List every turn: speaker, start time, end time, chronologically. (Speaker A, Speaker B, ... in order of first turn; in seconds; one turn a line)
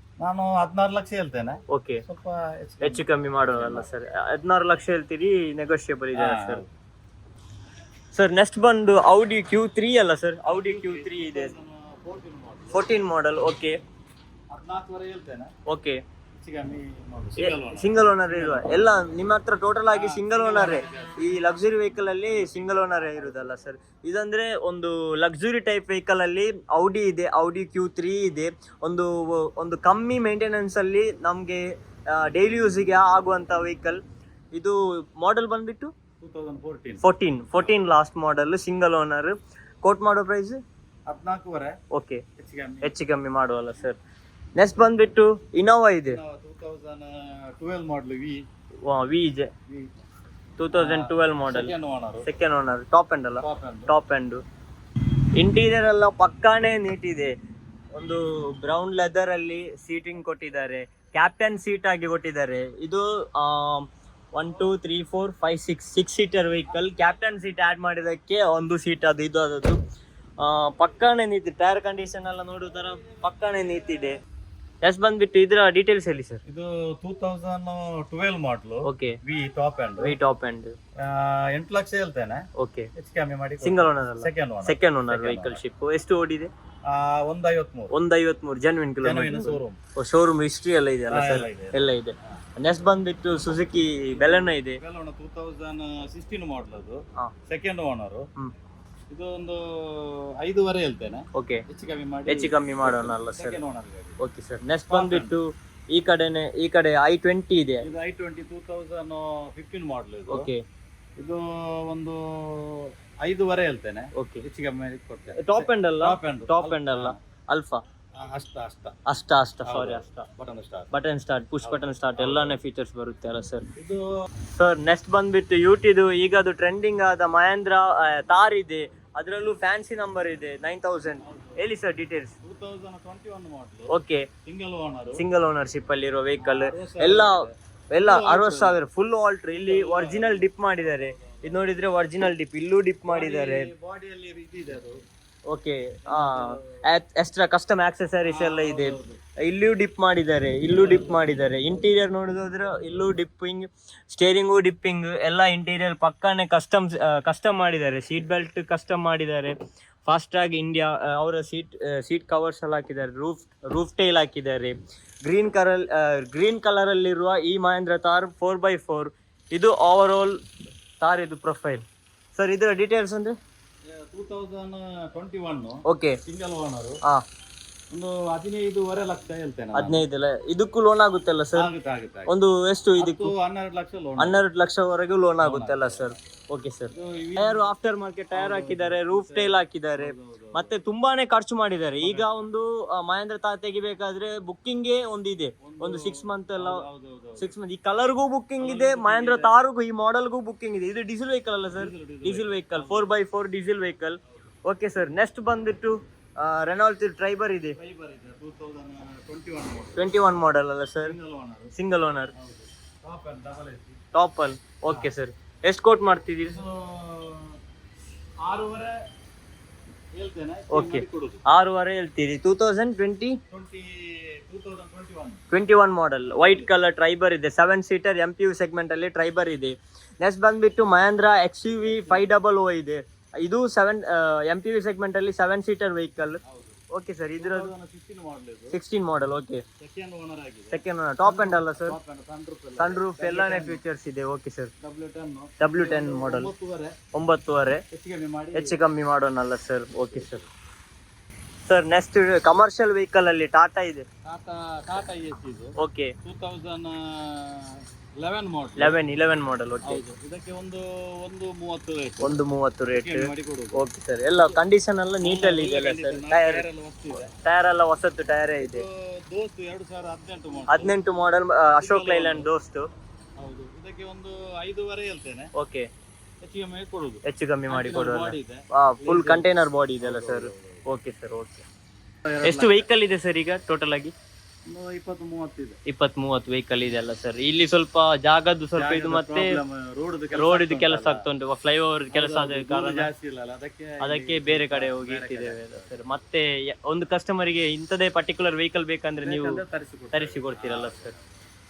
Speaker A: 0.2-3.9
Speaker B: 1.7-2.0
Speaker B: 2.8-6.6
Speaker A: 6.1-6.7
Speaker B: 8.1-11.5
Speaker A: 10.4-12.8
Speaker B: 12.7-13.8
Speaker A: 14.5-15.5
Speaker B: 15.7-16.0
Speaker A: 16.4-18.6
Speaker B: 17.4-34.0
Speaker A: 19.9-21.3
Speaker A: 22.6-23.6
Speaker B: 34.5-35.9
Speaker A: 36.2-37.0
Speaker B: 37.0-40.6
Speaker A: 37.6-37.8
Speaker A: 41.1-41.7
Speaker B: 41.9-42.2
Speaker A: 42.4-43.0
Speaker B: 42.8-44.0
Speaker B: 44.5-46.2
Speaker A: 46.0-48.4
Speaker B: 48.8-49.5
Speaker B: 50.6-51.7
Speaker A: 50.7-52.3
Speaker B: 52.2-54.4
Speaker A: 53.4-53.9
Speaker B: 55.4-57.3
Speaker B: 57.9-69.8
Speaker B: 70.4-74.2
Speaker B: 74.8-76.4
Speaker A: 76.5-80.1
Speaker B: 78.8-79.2
Speaker B: 80.0-80.8
Speaker A: 81.0-82.4
Speaker B: 82.6-82.9
Speaker A: 83.0-85.6
Speaker B: 83.6-86.5
Speaker A: 86.9-87.9
Speaker B: 87.9-94.8
Speaker A: 89.0-89.8
Speaker A: 91.1-92.4
Speaker A: 94.1-98.2
Speaker A: 99.1-104.2
Speaker B: 101.3-101.6
Speaker B: 102.3-103.6
Speaker B: 104.2-107.8
Speaker A: 104.9-105.4
Speaker A: 107.8-110.5
Speaker B: 110.3-110.6
Speaker A: 111.2-117.2
Speaker B: 114.2-114.4
Speaker B: 115.4-117.8
Speaker A: 118.2-119.0
Speaker B: 119.1-120.2
Speaker A: 119.6-120.9
Speaker B: 120.9-123.7
Speaker A: 121.6-122.6
Speaker A: 123.8-124.0
Speaker B: 124.5-132.3
Speaker A: 131.2-131.6
Speaker A: 132.4-133.9
Speaker B: 133.9-134.3
Speaker A: 134.4-135.2
Speaker B: 135.1-137.4
Speaker A: 136.4-138.8
Speaker B: 137.9-143.7
Speaker A: 139.5-141.8
Speaker A: 143.1-145.0
Speaker B: 145.5-170.3
Speaker A: 146.1-146.8
Speaker A: 148.2-149.2
Speaker A: 150.7-151.2
Speaker B: 171.0-171.8
Speaker B: 172.3-173.3
Speaker A: 173.9-177.0
Speaker B: 175.9-176.2
Speaker A: 177.9-180.0
Speaker B: 179.7-181.7
Speaker A: 181.6-182.3
Speaker B: 182.3-183.3
Speaker A: 183.0-184.4
Speaker B: 184.2-196.8
Speaker A: 185.4-186.2
Speaker A: 186.9-187.7
Speaker A: 188.3-190.8
Speaker A: 192.0-192.5
Speaker A: 195.6-197.5
Speaker B: 197.4-207.8
Speaker A: 198.6-199.6
Speaker A: 201.7-203.1
Speaker A: 207.8-210.1
Speaker B: 210.0-211.2
Speaker A: 211.0-211.7
Speaker B: 211.8-212.3
Speaker A: 212.3-214.0
Speaker B: 214.1-216.6
Speaker A: 216.5-217.6
Speaker A: 218.4-218.9
Speaker A: 220.2-221.4
Speaker B: 220.7-223.4
Speaker A: 223.5-225.4
Speaker B: 225.5-236.4
Speaker A: 226.4-226.7
Speaker A: 231.8-232.3
Speaker A: 236.4-236.8
Speaker B: 236.9-237.7
Speaker A: 237.4-238.8
Speaker B: 238.7-239.6
Speaker A: 239.8-243.8
Speaker B: 240.7-242.0
Speaker B: 242.8-244.7
Speaker A: 244.8-246.9
Speaker B: 245.6-246.5
Speaker B: 247.1-247.8
Speaker A: 247.9-248.8
Speaker B: 248.5-250.4
Speaker A: 250.0-250.4
Speaker B: 251.7-254.1
Speaker A: 254.2-259.0
Speaker B: 255.8-256.1
Speaker B: 258.8-260.0
Speaker A: 259.8-262.4
Speaker B: 262.2-266.6
Speaker A: 262.9-264.6
Speaker A: 265.2-267.3
Speaker B: 267.3-268.8
Speaker A: 268.6-271.0
Speaker B: 270.7-272.9
Speaker A: 271.8-272.5
Speaker A: 273.4-275.5
Speaker B: 275.6-275.9
Speaker A: 276.4-279.5
Speaker B: 277.2-281.6
Speaker A: 280.0-280.8
Speaker A: 282.2-282.9
Speaker B: 282.4-284.1
Speaker A: 284.6-285.8
Speaker B: 285.9-289.6
Speaker A: 288.8-291.2
Speaker B: 290.3-293.1
Speaker A: 292.1-296.1
Speaker B: 294.0-299.6
Speaker A: 299.2-301.4
Speaker B: 300.1-301.1